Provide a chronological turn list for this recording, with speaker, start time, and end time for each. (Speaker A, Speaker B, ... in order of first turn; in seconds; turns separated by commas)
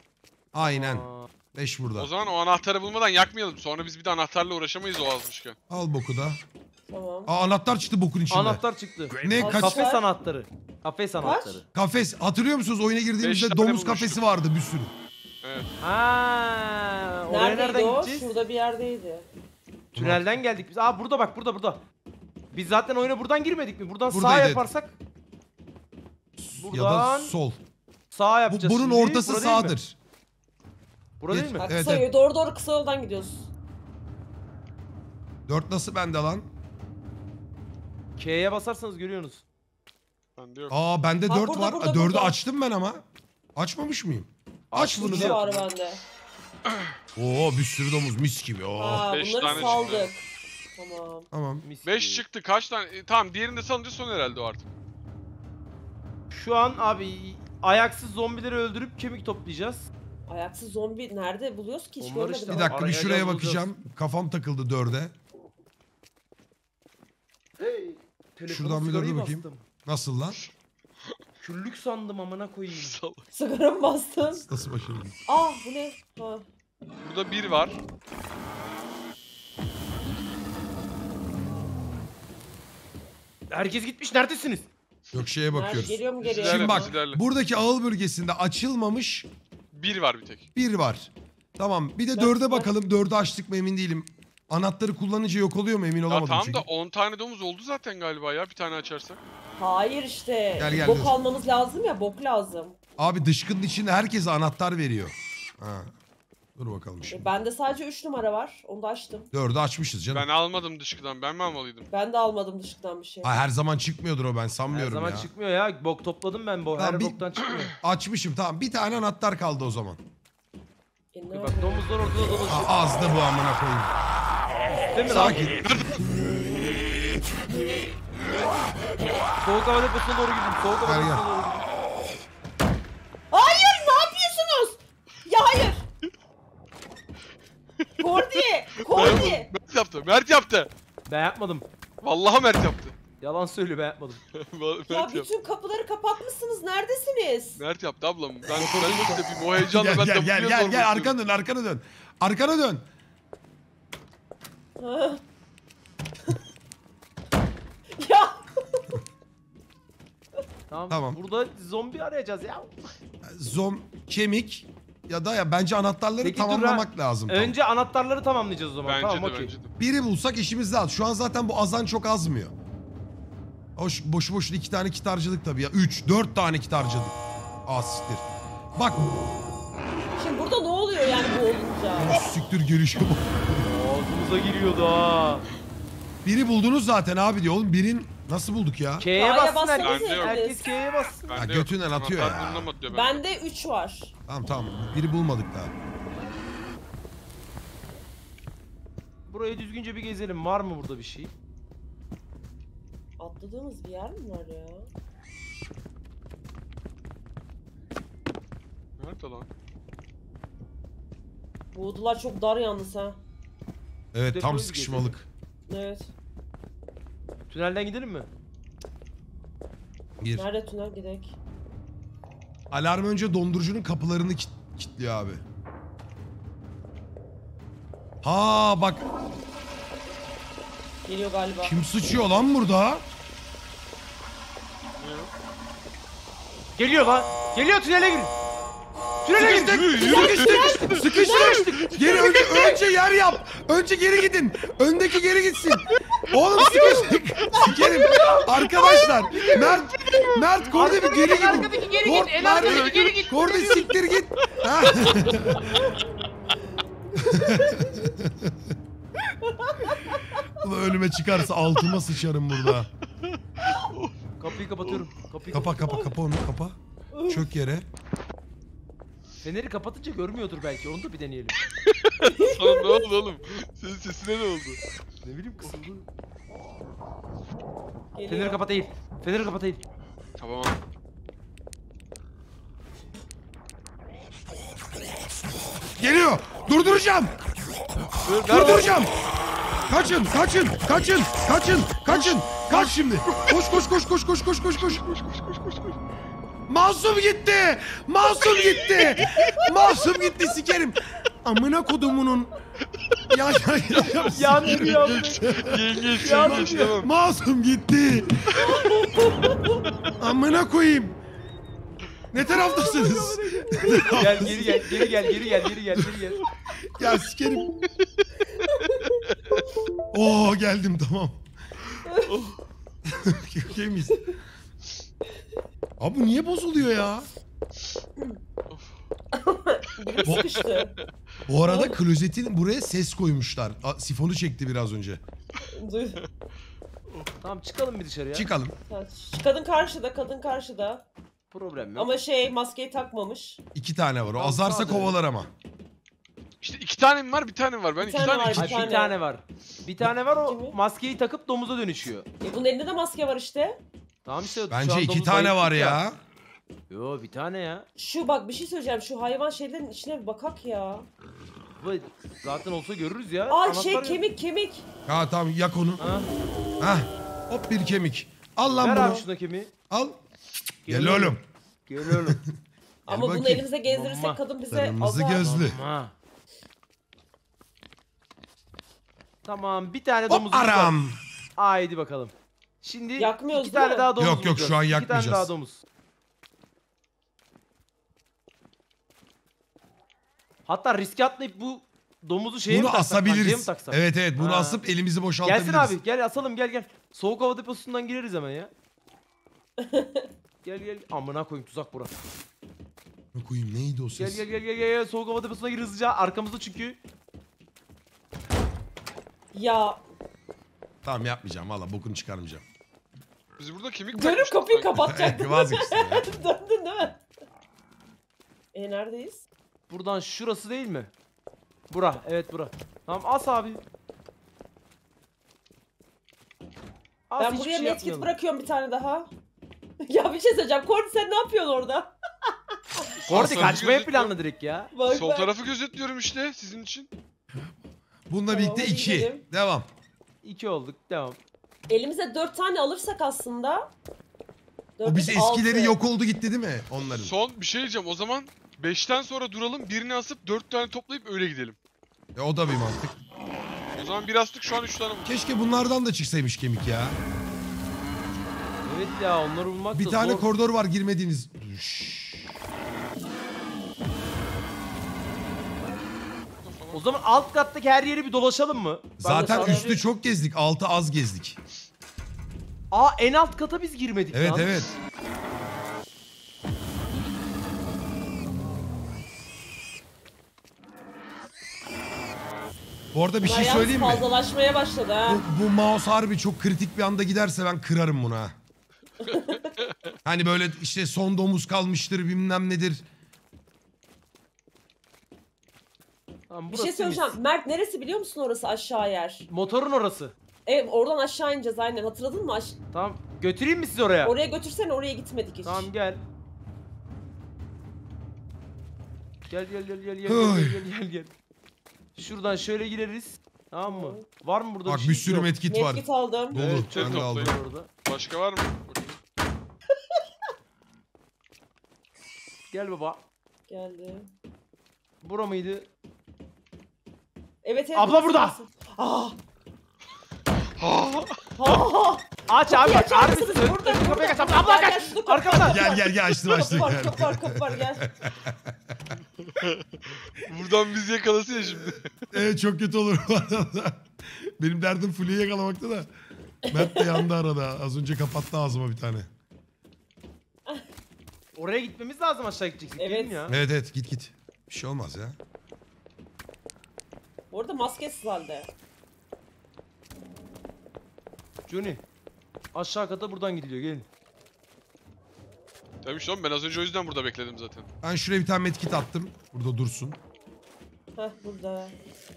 Speaker A: 0.5-2.1, Speaker B: 0.6-1.3, Speaker C: 1.9-5.5, Speaker A: 5.7-6.4, Speaker D: 6.9-7.3, Speaker A: 7.3-8.6, Speaker B: 8.3-11.6, Speaker A: 9.1-9.8, Speaker D: 9.4-10.0, Speaker D: 11.2-11.6, Speaker A: 11.7-14.9, Speaker C: 13.2-14.2, Speaker C: 15.4-15.7, Speaker B: 15.8-18.3, Speaker D: 17.3-19.3, Speaker B: 19.9-21.8, Speaker A: 19.9-20.4, Speaker B: 22.5-24.9, Speaker A: 24.1-24.7, Speaker A: 26.4-27.6, Speaker B: 26.6-27.3, Speaker B: 28.1-29.8, Speaker A: 28.5-29.9, Speaker B: 31.2-31.7, Speaker A: 31.3-32.1, Speaker D: 31.6-33.5, Speaker A: 35.5-36.5, Speaker B: 38.2-39.4, Speaker C: 40.4-40.8, Speaker A: 40.7-43.0, Speaker D: 41.3-42.3, Speaker A: 43.5-45.4, Speaker B: 44.7-45.6, Speaker D: 45.0-46.0, Speaker A: 47.1-49.8, Speaker D: 48.8-50.2, Speaker C: 49.1-50.1, Speaker B: 49.5-49.9, Speaker D: 50.8-51.3, Speaker A: 51.3-51.6, Speaker B: 51.6-52.2, Speaker C: 51.8-54.7, Speaker B: 56.3-59.9, Speaker D: 60.3-62.9, Speaker B: 62.0-63.7, Speaker A: 62.5-65.1, Speaker B: 67.6-69.6, Speaker A: 68.5-70.4, Speaker B: 71.4-73.0, Speaker C: 72.7-73.2, Speaker D: 73.3-74.4, Speaker A: 74.3-75.2, Speaker D: 75.3-76.5, Speaker C: 77.0-77.8, Speaker B: 83.5-84.7, Speaker A: 85.1-89.3, Speaker D: 85.5-86.9, Speaker C: 86.2-87.2, Speaker C: 89.7-90.5, Speaker A: 90.5-96.6, Speaker D: 92.1-92.7, Speaker C: 96.1-99.2, Speaker D: 99.6-102.8, Speaker A: 100.6-101.2, Speaker A: 103.0-105.9, Speaker A: 106.5-107.3, Speaker D: 107.1-109.3, Speaker A: 109.3-110.3, Speaker C: 110.1-111.9, Speaker D: 111.9-113.3, Speaker A: 113.2-115.3, Speaker B: 114.7-117.7, Speaker A: 116.8-117.2, Speaker A: 117.8-120.0, Speaker D: 121.1-122.4, Speaker B: 121.3-122.8, Speaker A: 122.5-123.9, Speaker B: 124.9-125.5, Speaker A: 125.1-125.6, Speaker C: 125.6-126.0, Speaker B: 129.4-131.6, Speaker A: 130.8-131.2, Speaker D: 133.3-135.8, Speaker D: 138.0-139.5, Speaker C: 138.2-140.7, Speaker B: 141.1-141.7, Speaker C: 142.0-142.9, Speaker B: 143.2-144.2, Speaker C: 144.3-145.3, Speaker D: 144.9-147.6, Speaker C: 147.6-151.1, Speaker B: 148.5-149.2, Speaker A: 149.6-152.8, Speaker D: 154.8-155.2, Speaker D: 158.0-158.9, Speaker B: 160.7-162.7, Speaker A: 160.9-161.2, Speaker A: 163.2-167.5, Speaker B: 166.2-169.5, Speaker C: 168.8-169.7, Speaker A: 169.8-172.5, Speaker A: 173.8-179.0, Speaker D: 180.2-182.2, Speaker A: 181.9-183.7, Speaker B: 183.6-185.4, Speaker A: 186.2-189.1, Speaker B: 189.0-191.4, Speaker D: 189.1-190.7, Speaker C: 189.8-190.4, Speaker C: 191.3-193.2, Speaker A: 191.3-192.7, Speaker D: 192.9-194.1, Speaker A: 194.3-195.7, Speaker B: 199.3-201.3, Speaker D: 203.2-204.9, Speaker C: 209.0-209.5, Speaker D: 211.7-213.2, Speaker A: 214.1-215.3, Speaker B: 214.3-215.1, Speaker D: 215.7-216.1, Speaker B: 217.5-218.3, Speaker A: 220.2-220.5, Speaker D: 220.3-221.3, Speaker A: 222.7-225.4, Speaker A: 228.2-229.1, Speaker D: 231.1-231.7, Speaker A: 231.6-233.0, Speaker C: 235.0-235.3, Speaker B: 236.8-238.3, Speaker B: 239.2-241.5, Speaker A: 239.3-255.7, Speaker D: 239.9-242.8, Speaker C: 240.1-241.9, Speaker D: 246.6-249.6, Speaker B: 246.7-247.0, Speaker B: 249.3-249.8, Speaker C: 249.3-250.4, Speaker B: 250.7-253.9, Speaker D: 251.3-252.6, Speaker C: 252.6-253.3, Speaker D: 255.2-256.0, Speaker D: 257.1-258.1, Speaker A: 257.2-258.7, Speaker D: 259.4-260.4, Speaker A: 260.6-262.9, Speaker C: 263.6-264.1, Speaker B: 264.4-266.0, Speaker A: 265.5-266.8, Speaker D: 265.9-266.1, Speaker D: 267.1-267.4, Speaker A: 267.3-267.8, Speaker B: 269.4-271.6, Speaker C: 271.9-274.8, Speaker D: 272.2-273.1, Speaker B: 275.2-276.0, Speaker D: 278.1-278.6, Speaker B: 278.3-279.8, Speaker C: 280.4-280.8, Speaker A: 286.0-287.3, Speaker C: 288.2-289.0, Speaker A: 288.5-289.1, Speaker A: 289.9-295.0, Speaker C: 292.1-293.6, Speaker C: 294.8-296.0, Speaker A: 296.7-302.5, Speaker C: 298.5-299.6, Speaker A: 303.3-308.4, Speaker B: 304.1-305.4, Speaker C: 304.7-307.1, Speaker B: 306.2-307.0, Speaker C: 308.5-308.7, Speaker D: 308.5-309.8, Speaker A: 310.2-311.2, Speaker A: 312.3-314.8, Speaker D: 312.5-315.6, Speaker B: 313.9-316.4, Speaker A: 316.9-317.8, Speaker D: 318.6-319.1, Speaker C: 319.0-319.6, Speaker A: 320.1-321.4, Speaker D: 322.1-322.3, Speaker C: 322.2-322.6, Speaker A: 323.1-324.3, Speaker A: 326.0-327.3, Speaker D: 329.3-330.9, Speaker C: 330.1-330.9, Speaker A: 331.5-335.2, Speaker D: 331.6-332.0, Speaker D: 335.7-336.2, Speaker B: 337.4-338.5, Speaker A: 338.3-338.7, Speaker D: 338.9-341.0, Speaker B: 341.5-342.1, Speaker D: 341.9-343.6, Speaker A: 343.7-345.5, Speaker B: 344.3-345.1, Speaker C: 346.6-348.9, Speaker D: 348.0-349.2, Speaker B: 348.6-352.2, Speaker D: 350.4-350.8, Speaker D: 352.4-353.8, Speaker B: 354.2-356.0, Speaker A: 354.7-356.2, Speaker B: 356.9-357.9, Speaker D: 358.0-361.1, Speaker B: 361.8-364.2, Speaker D: 363.5-364.8, Speaker A: 365.1-366.0, Speaker B: 366.0-366.3, Speaker A: 366.8-369.2, Speaker B: 368.7-369.7, Speaker A: 369.9-370.2, Speaker A: 370.9-371.4, Speaker B: 370.9-372.4, Speaker A: 372.1-372.5, Speaker A: 373.1-373.6, Speaker D: 373.1-375.6, Speaker B: 373.8-374.4, Speaker A: 374.7-375.8, Speaker B: 375.4-376.1, Speaker B: 379.4-380.9, Speaker A: 380.3-381.2, Speaker B: 381.6-385.8, Speaker D: 383.2-384.1, Speaker A: 384.1-385.5, Speaker B: 390.7-394.8, Speaker A: 392.7-396.0, Speaker B: 395.4-398.7, Speaker D: 399.8-400.3, Speaker B: 400.6-402.1, Speaker A: 403.3-404.4, Speaker B: 404.2-407.0, Speaker D: 409.5-410.0, Speaker A: 411.0-412.6, Speaker C: 413.6-415.1, Speaker D: 414.1-417.2, Speaker A: 415.1-416.3, Speaker D: 418.7-419.4, Speaker B: 419.9-421.1, Speaker B: 421.9-423.8, Speaker B: 427.3-428.3, Speaker D: 427.4-429.3, Speaker D: 430.0-433.0, Speaker C: 433.2-434.3, Speaker B: 433.3-434.9, Speaker A: 433.4-433.8, Speaker D: 434.9-435.5, Speaker C: 435.1-437.1, Speaker A: 438.3-439.9, Speaker D: 438.5-439.4, Speaker B: 440.4-441.4, Speaker D: 441.9-443.9, Speaker D: 445.0-445.9, Speaker A: 445.0-447.3, Speaker C: 447.1-451.8, Speaker A: 452.4-453.2, Speaker C: 453.9-455.4, Speaker A: 455.2-457.2, Speaker B: 458.8-460.5, Speaker A: 459.9-462.5, Speaker C: 466.6-467.2, Speaker B: 466.9-470.0, Speaker A: 469.2-471.6, Speaker D: 469.4-470.0, Speaker B: 472.9-474.7, Speaker A: 474.3-474.9, Speaker A: 483.1-484.2, Speaker D: 483.4-485.4, Speaker A: 485.2-488.5, Speaker D: 489.2-489.7, Speaker C: 489.3-490.1, Speaker A: 490.2-493.0, Speaker B: 496.5-497.4, Speaker D: 496.7-499.5, Speaker B: 499.5-500.3, Speaker D: 500.6-502.8, Speaker B: 502.9-504.4, Speaker D: 504.2-505.9, Speaker B: 505.6-506.2, Speaker B: 509.5-511.3, Speaker A: 510.2-510.8, Speaker B: 512.1-515.5, Speaker D: 513.9-514.2, Speaker A: 514.9-517.5, Speaker D: 515.6-516.6, Speaker B: 516.5-517.9, Speaker C: 516.9-519.2, Speaker D: 519.9-520.2, Speaker B: 522.7-523.2, Speaker D: 523.7-524.3, Speaker B: 525.2-525.9, Speaker D: 527.6-529.4, Speaker B: 527.9-528.6, Speaker C: 530.8-531.4, Speaker D: 531.6-538.0, Speaker B: 532.5-535.8, Speaker A: 535.6-539.0, Speaker C: 539.4-542.1, Speaker A: 542.3-546.1, Speaker D: 546.7-547.2, Speaker A: 546.7-549.3, Speaker B: 551.5-553.5, Speaker D: 553.0-553.5, Speaker A: 553.5-555.4, Speaker D: 557.5-558.7, Speaker B: 561.7-562.0, Speaker B: 562.7-564.1, Speaker C: 566.0-567.9, Speaker A: 568.0-570.2, Speaker D: 571.1-571.9